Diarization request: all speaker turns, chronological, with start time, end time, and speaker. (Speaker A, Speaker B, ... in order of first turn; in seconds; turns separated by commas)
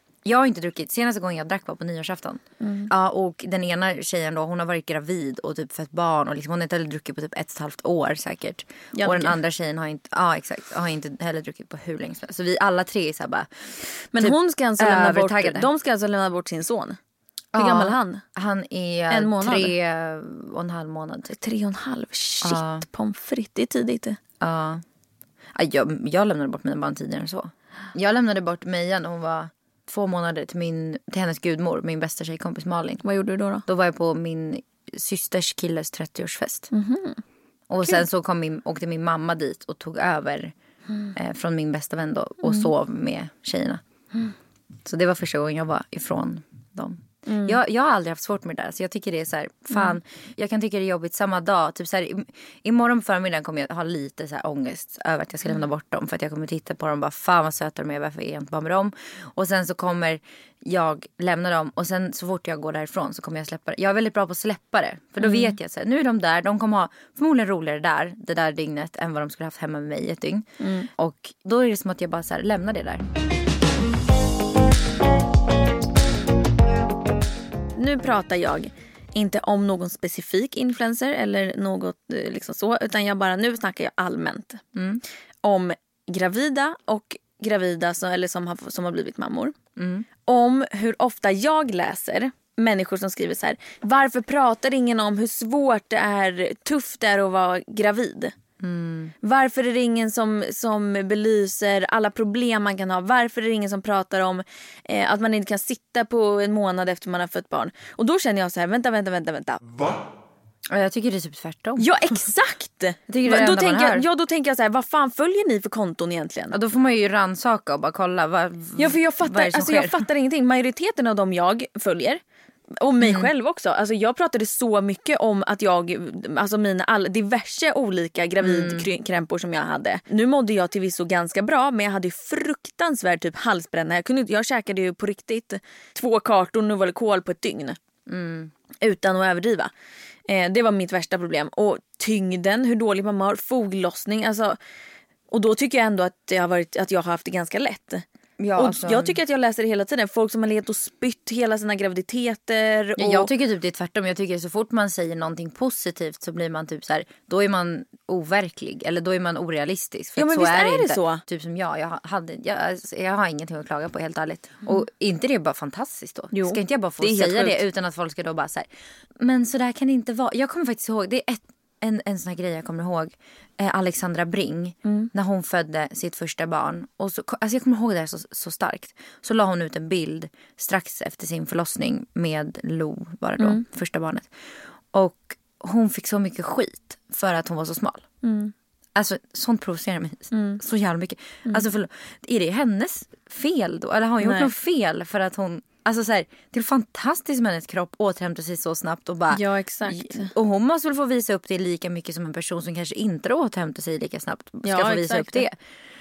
Speaker A: 0.2-13.5, Speaker B: 2.6-2.9, Speaker B: 8.9-9.4, Speaker B: 14.1-17.0, Speaker A: 14.2-15.7, Speaker A: 17.5-21.4, Speaker B: 17.6-18.2, Speaker B: 19.1-19.7, Speaker B: 21.4-24.2, Speaker A: 22.4-22.8, Speaker A: 24.4-24.8, Speaker A: 25.5-33.0, Speaker B: 33.0-33.6, Speaker A: 33.6-36.7, Speaker B: 36.7-37.2, Speaker A: 37.7-40.5, Speaker A: 41.1-43.8, Speaker B: 42.4-42.7, Speaker A: 44.8-73.0, Speaker B: 47.3-47.6, Speaker B: 65.2-65.5, Speaker B: 70.6-70.9, Speaker B: 77.7-84.6, Speaker A: 84.7-85.0, Speaker B: 85.4-89.5, Speaker A: 89.8-90.0, Speaker B: 90.2-98.3, Speaker A: 98.6-99.1, Speaker B: 99.2-109.6, Speaker A: 110.7-112.2, Speaker B: 111.8-116.6, Speaker A: 113.1-114.1, Speaker A: 116.5-120.0, Speaker B: 118.8-122.2, Speaker B: 122.8-137.8, Speaker A: 123.0-123.3, Speaker A: 128.4-128.9, Speaker A: 138.1-138.5, Speaker B: 138.8-139.7, Speaker B: 140.3-144.6, Speaker B: 145.3-153.3, Speaker A: 148.4-149.2, Speaker A: 153.0-168.7, Speaker B: 160.2-161.2, Speaker B: 166.3-167.6, Speaker A: 169.2-184.3, Speaker A: 184.9-188.0, Speaker B: 188.2-188.5, Speaker A: 188.9-205.6, Speaker B: 190.3-190.6, Speaker B: 194.2-194.5, Speaker B: 199.3-200.3, Speaker B: 204.6-205.4